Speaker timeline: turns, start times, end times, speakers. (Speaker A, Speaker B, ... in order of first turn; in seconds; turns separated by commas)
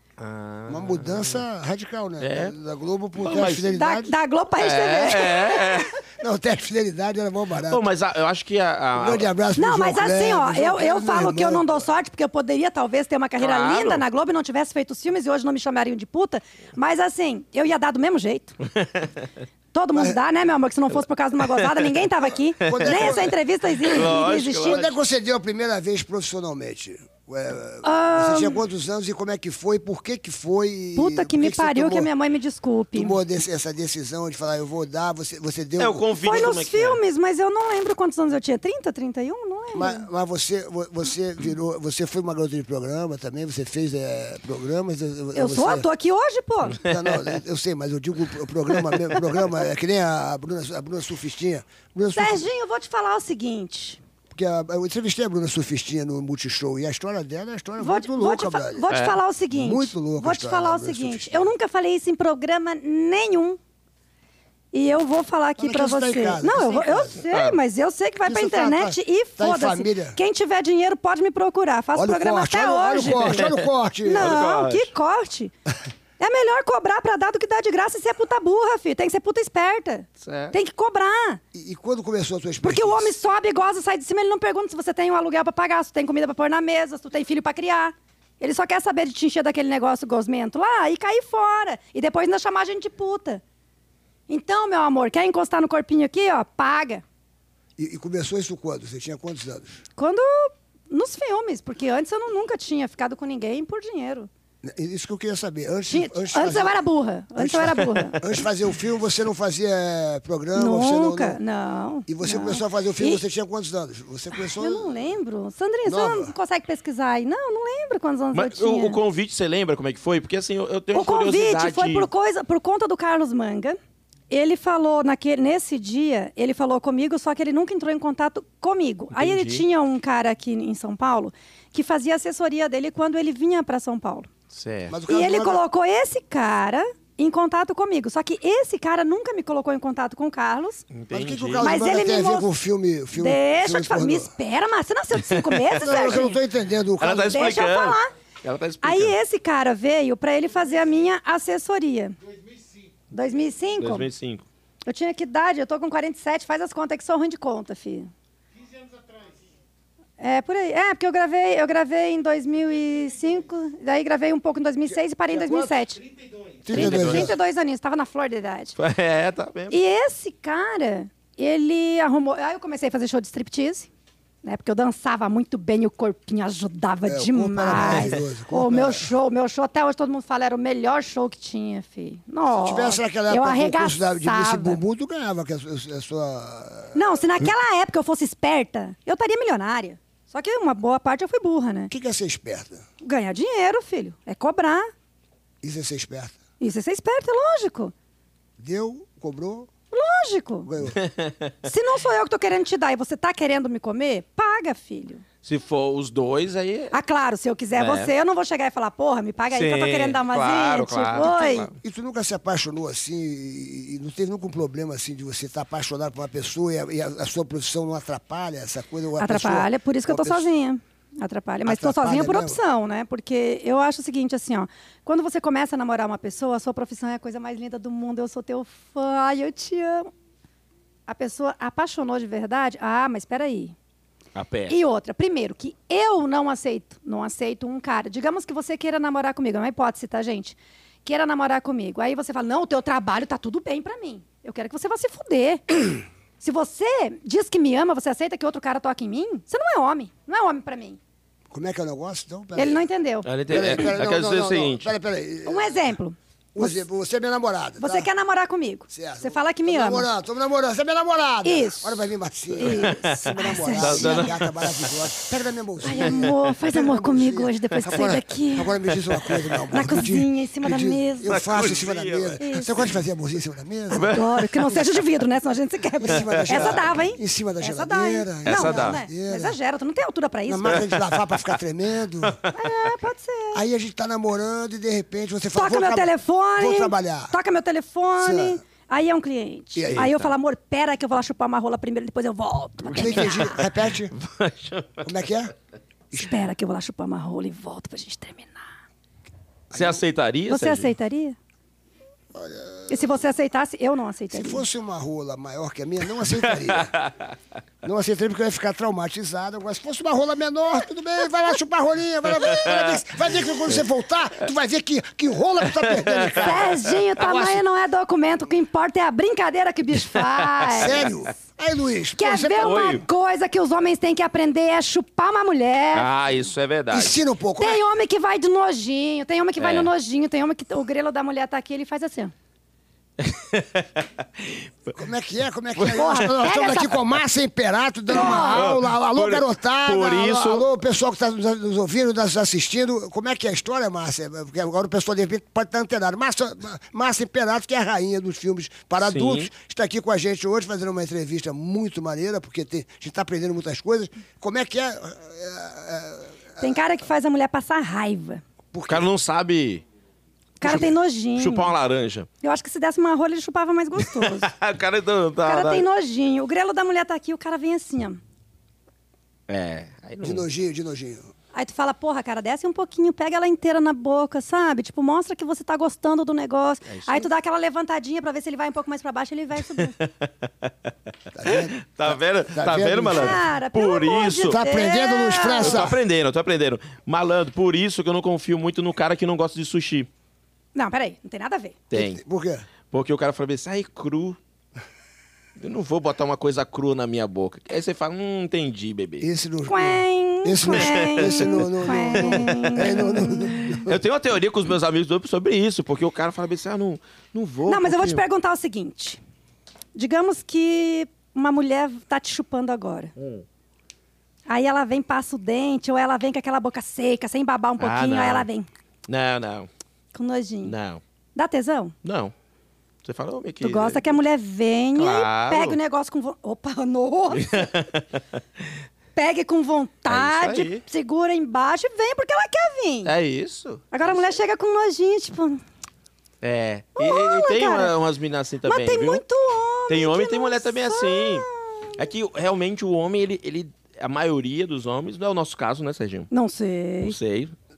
Speaker A: 0.2-1.4, Speaker B: 0.7-4.1, Speaker A: 2.2-2.5, Speaker A: 3.2-3.7, Speaker C: 3.5-5.9, Speaker A: 4.6-5.9, Speaker B: 6.2-7.9, Speaker A: 7.7-9.3, Speaker B: 9.0-11.9, Speaker C: 9.6-18.6, Speaker A: 13.4-14.0, Speaker A: 18.8-19.3, Speaker C: 19.7-24.9, Speaker B: 19.9-20.2, Speaker A: 21.5-21.9, Speaker B: 22.6-23.4, Speaker A: 22.6-24.9, Speaker B: 23.9-32.1, Speaker C: 27.8-28.6, Speaker C: 31.0-33.2, Speaker B: 32.9-36.1, Speaker A: 35.8-37.0, Speaker C: 36.2-40.1, Speaker B: 39.7-45.9, Speaker C: 45.4-46.8, Speaker B: 46.8-52.5, Speaker C: 52.1-54.0, Speaker B: 54.3-58.9, Speaker C: 57.8-63.6, Speaker A: 58.9-59.2, Speaker B: 59.5-61.5, Speaker C: 64.7-73.5, Speaker B: 65.6-67.2, Speaker A: 67.3-67.6, Speaker B: 68.2-70.2, Speaker B: 72.0-74.4, Speaker A: 73.2-74.9, Speaker C: 74.0-75.5, Speaker C: 76.2-81.4, Speaker A: 80.2-80.6, Speaker B: 81.5-83.1, Speaker C: 82.6-93.4, Speaker C: 94.3-97.0, Speaker B: 97.8-99.8, Speaker C: 100.0-104.3, Speaker B: 104.7-106.8, Speaker C: 105.9-108.3, Speaker B: 107.4-111.4, Speaker C: 110.6-113.2, Speaker B: 112.1-114.9, Speaker C: 114.3-119.0, Speaker B: 115.9-116.3, Speaker A: 118.3-122.1, Speaker C: 120.9-123.8, Speaker C: 124.3-134.3, Speaker A: 129.1-129.6, Speaker A: 134.5-134.9, Speaker B: 134.9-135.6, Speaker C: 135.1-140.8, Speaker A: 140.9-141.8, Speaker B: 141.1-144.3, Speaker C: 141.6-142.5, Speaker C: 143.1-146.4, Speaker A: 145.2-146.2, Speaker B: 145.8-147.4, Speaker A: 147.0-149.2, Speaker C: 147.2-148.1, Speaker C: 148.8-152.2, Speaker C: 153.1-154.1, Speaker A: 153.8-154.4, Speaker C: 154.9-158.1, Speaker C: 160.2-166.1, Speaker B: 165.3-165.7, Speaker B: 166.6-167.4, Speaker C: 166.7-168.8, Speaker A: 166.7-167.4, Speaker A: 168.8-169.8, Speaker C: 169.7-173.9, Speaker C: 174.4-184.8, Speaker B: 177.1-179.1, Speaker A: 177.7-178.2, Speaker B: 182.5-187.0, Speaker C: 186.9-191.9, Speaker B: 191.9-192.8, Speaker C: 193.0-194.9, Speaker B: 195.6-196.4, Speaker C: 196.6-197.9, Speaker B: 198.6-199.7, Speaker C: 199.9-200.7, Speaker B: 200.7-201.0, Speaker A: 201.0-201.7, Speaker C: 201.7-205.2, Speaker A: 205.4-206.9, Speaker C: 206.9-211.7, Speaker A: 207.8-208.1, Speaker A: 209.5-211.7, Speaker B: 211.2-220.5, Speaker C: 219.2-230.1, Speaker B: 221.7-222.6, Speaker C: 231.1-233.8, Speaker A: 234.3-234.8, Speaker C: 234.7-251.0, Speaker B: 251.5-252.8, Speaker C: 252.6-253.3, Speaker A: 253.2-254.9, Speaker B: 253.5-255.9, Speaker C: 255.5-256.8, Speaker B: 256.6-258.1, Speaker C: 257.8-260.1, Speaker B: 258.9-274.2, Speaker C: 261.4-262.1, Speaker C: 262.6-264.3, Speaker A: 262.6-264.9, Speaker C: 265.8-268.8, Speaker A: 265.9-266.5, Speaker A: 269.1-269.6, Speaker C: 269.7-271.4, Speaker A: 271.2-272.9, Speaker C: 272.4-272.7, Speaker A: 273.9-275.0, Speaker C: 273.9-280.9, Speaker B: 276.0-279.6, Speaker A: 276.1-276.8, Speaker A: 278.5-279.0, Speaker B: 280.5-282.4, Speaker A: 280.7-281.6, Speaker A: 282.2-282.9, Speaker C: 282.5-283.6, Speaker B: 283.5-287.4, Speaker C: 285.6-293.6, Speaker B: 288.2-288.6, Speaker B: 289.8-290.1, Speaker A: 289.9-290.3, Speaker B: 292.9-294.1, Speaker A: 293.1-295.1, Speaker B: 295.0-295.5, Speaker B: 296.1-296.4, Speaker C: 296.2-298.6, Speaker B: 299.7-300.0, Speaker A: 299.7-300.9, Speaker C: 300.5-301.4, Speaker B: 302.3-303.1, Speaker C: 302.9-304.6, Speaker B: 304.3-306.9, Speaker A: 306.2-307.4, Speaker B: 307.8-317.6, Speaker A: 312.4-313.0, Speaker A: 315.6-317.0, Speaker C: 316.4-321.1, Speaker A: 320.1-321.1, Speaker B: 320.8-322.9, Speaker C: 322.2-326.1, Speaker A: 322.6-323.1, Speaker A: 325.9-327.2, Speaker B: 326.9-327.8, Speaker C: 327.6-332.3, Speaker A: 329.6-329.9, Speaker A: 333.2-334.9, Speaker B: 334.9-356.7, Speaker C: 335.9-337.0, Speaker C: 338.1-338.7, Speaker A: 338.1-340.7, Speaker A: 349.0-349.5, Speaker C: 356.6-358.4, Speaker B: 358.7-359.1, Speaker A: 358.9-359.8, Speaker C: 360.6-361.7, Speaker B: 360.6-360.9, Speaker A: 360.6-362.3, Speaker C: 362.4-364.5, Speaker A: 364.0-365.9, Speaker C: 365.4-368.2, Speaker A: 369.5-370.5, Speaker B: 370.2-371.3, Speaker C: 371.5-380.0, Speaker A: 376.9-377.3, Speaker A: 379.7-380.9, Speaker B: 381.3-383.4, Speaker A: 381.4-384.6, Speaker C: 383.1-385.9, Speaker B: 384.4-386.0, Speaker A: 385.6-390.1, Speaker C: 390.8-391.8, Speaker A: 391.9-392.2, Speaker B: 391.9-392.7, Speaker A: 392.9-394.4, Speaker A: 395.6-399.3, Speaker B: 399.2-404.0, Speaker C: 399.7-403.9, Speaker A: 400.7-408.2, Speaker C: 407.7-409.2, Speaker C: 409.9-413.1, Speaker A: 413.2-413.4, Speaker C: 414.5-418.7, Speaker A: 417.8-418.5, Speaker A: 419.1-419.7, Speaker C: 420.1-420.8, Speaker A: 420.6-421.0, Speaker C: 421.4-421.9, Speaker A: 422.0-422.3, Speaker A: 423.0-424.1, Speaker C: 423.6-427.7, Speaker A: 424.9-425.8, Speaker A: 427.3-428.8, Speaker C: 429.2-433.1, Speaker A: 430.1-430.8, Speaker A: 433.1-434.2, Speaker C: 433.9-435.6, Speaker A: 436.4-439.2, Speaker C: 437.0-437.9, Speaker C: 438.6-441.9, Speaker A: 439.9-446.3, Speaker C: 446.3-447.2, Speaker A: 447.0-447.5